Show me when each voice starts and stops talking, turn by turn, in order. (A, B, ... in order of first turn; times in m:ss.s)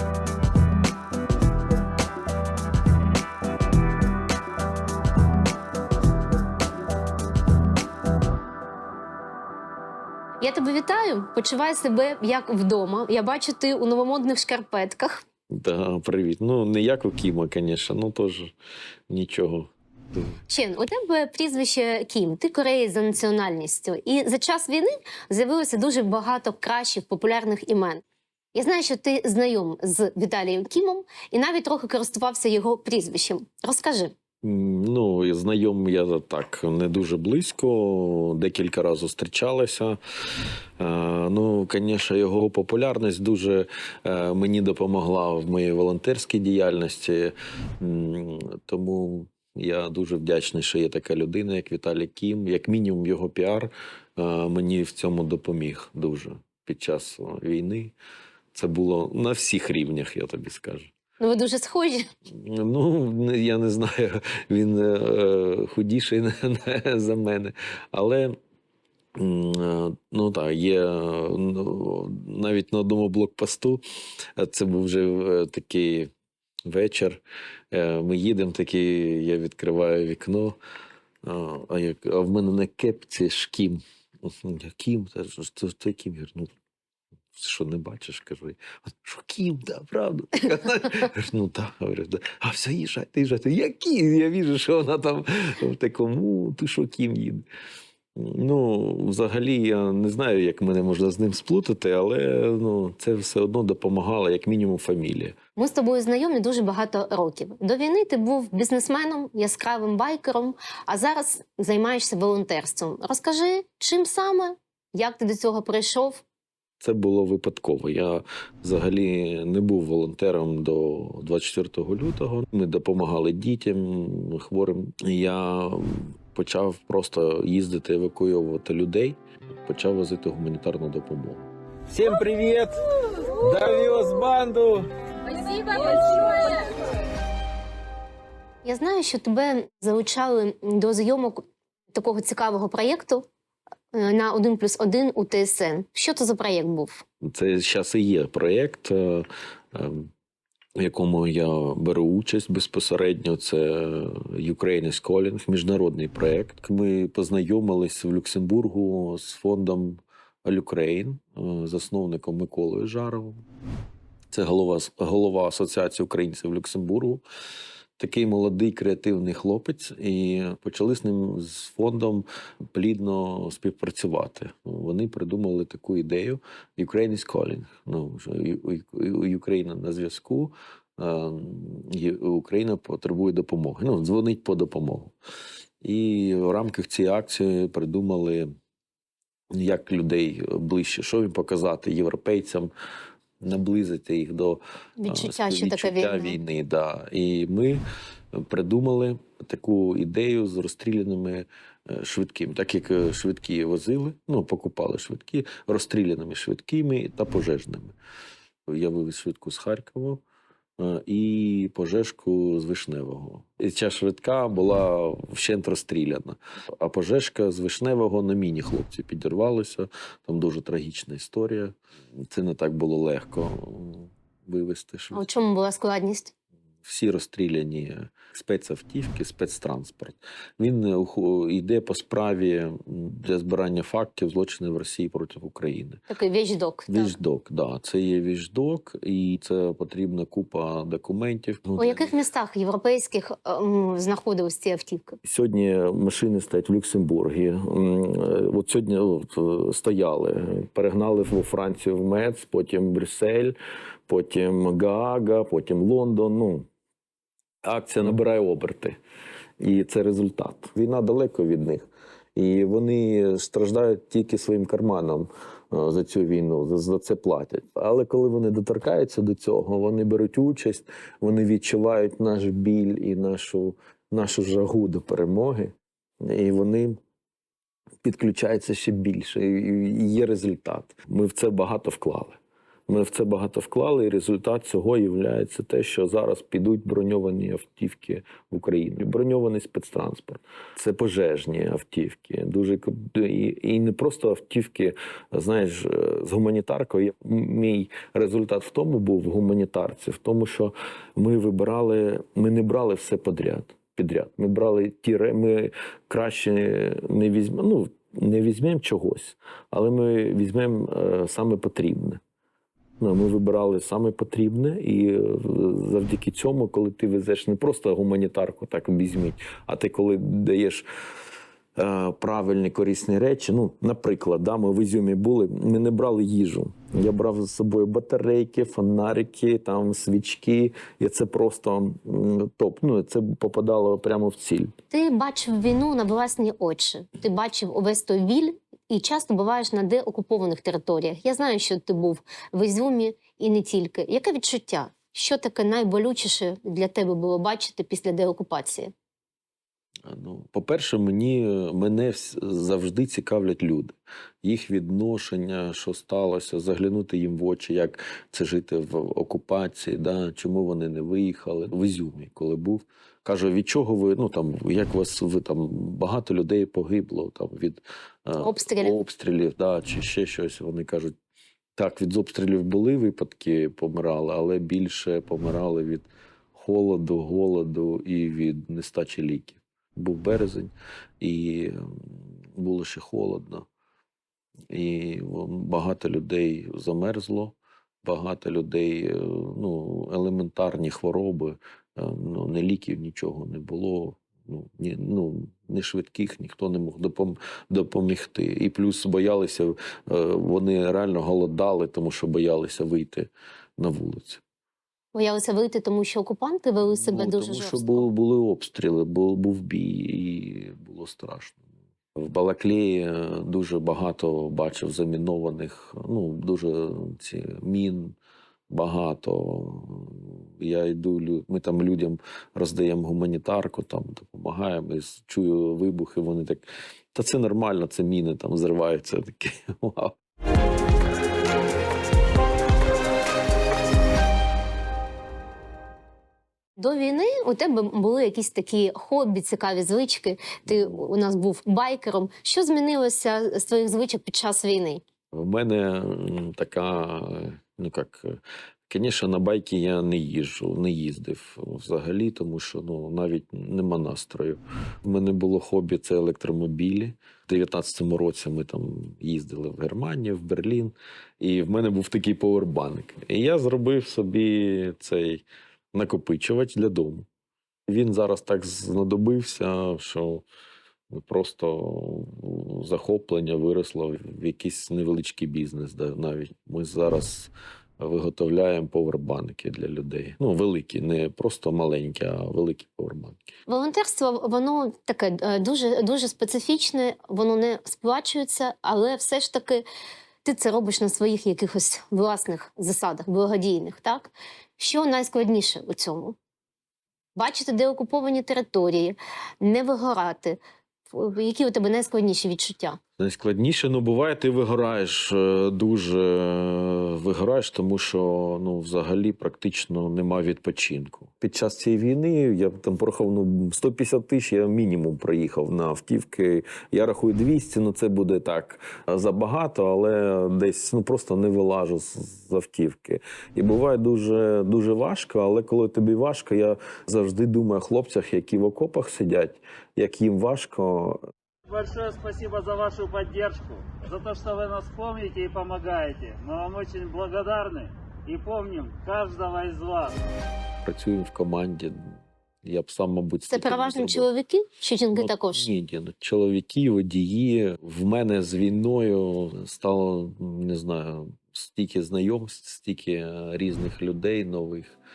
0:10.4-0:15.2 A
0:15.5-0:18.5 B
0:19.1-0:20.4 B
0:20.5-0:28.0 A
0:28.5-0:34.1 A
0:34.4-0:40.0 B
0:40.8-0:57.9 B
0:58.5-1:00.9 B
1:01.2-1:02.1 A
1:02.3-1:08.4 B
1:09.2-1:13.8 B
1:14.4-1:16.1 B
1:16.7-1:20.6 B
1:21.2-1:26.5 B
1:27.3-1:37.4 B
1:38.2-1:45.4 B
1:45.6-1:56.2 A
1:56.8-2:14.9 B
2:15.6-2:15.9 B
2:18.6-2:23.2 A
2:23.9-2:27.0 A
2:27.2-2:30.1 B
2:30.8-2:43.4 B
2:44.3-2:47.2 B
2:48.0-3:05.1 B
3:05.8-3:08.5 B
3:09.5-3:12.7 B
3:13.4-3:27.9 B
3:15.0-3:16.4 A
3:28.7-3:30.2 B
3:30.8-3:45.3 B
3:45.1-3:46.3 A
3:46.8-3:56.0 B
3:56.1-3:57.2 A
3:56.9-4:02.1 B
4:01.8-4:05.2 A
4:05.2-4:13.5 B
4:14.1-4:16.7 B
4:17.6-4:19.0 B
4:19.6-4:37.0 B
4:38.0-5:12.2 B
5:13.0-5:20.8 B
5:21.8-5:34.7 B
5:34.9-5:48.9 A
5:50.0-6:11.1 B
6:08.4-6:09.0 A
6:11.8-6:23.6 B
6:24.7-6:44.4 B
6:45.1-6:48.1 A
6:46.8-6:51.6 B
6:52.2-6:58.1 B
6:58.7-7:10.1 B
7:16.8-7:25.0 A
7:25.3-7:47.2 B
7:47.9-7:50.4 B
7:51.1-8:03.4 B
8:03.7-8:09.8 A
8:10.4-8:16.4 A
8:17.4-8:20.6 A
8:21.1-8:23.0 A
8:23.2-8:51.2 B
8:51.7-9:00.2 C
9:00.8-9:04.3 B
9:03.5-9:05.7 A
9:05.1-9:15.0 B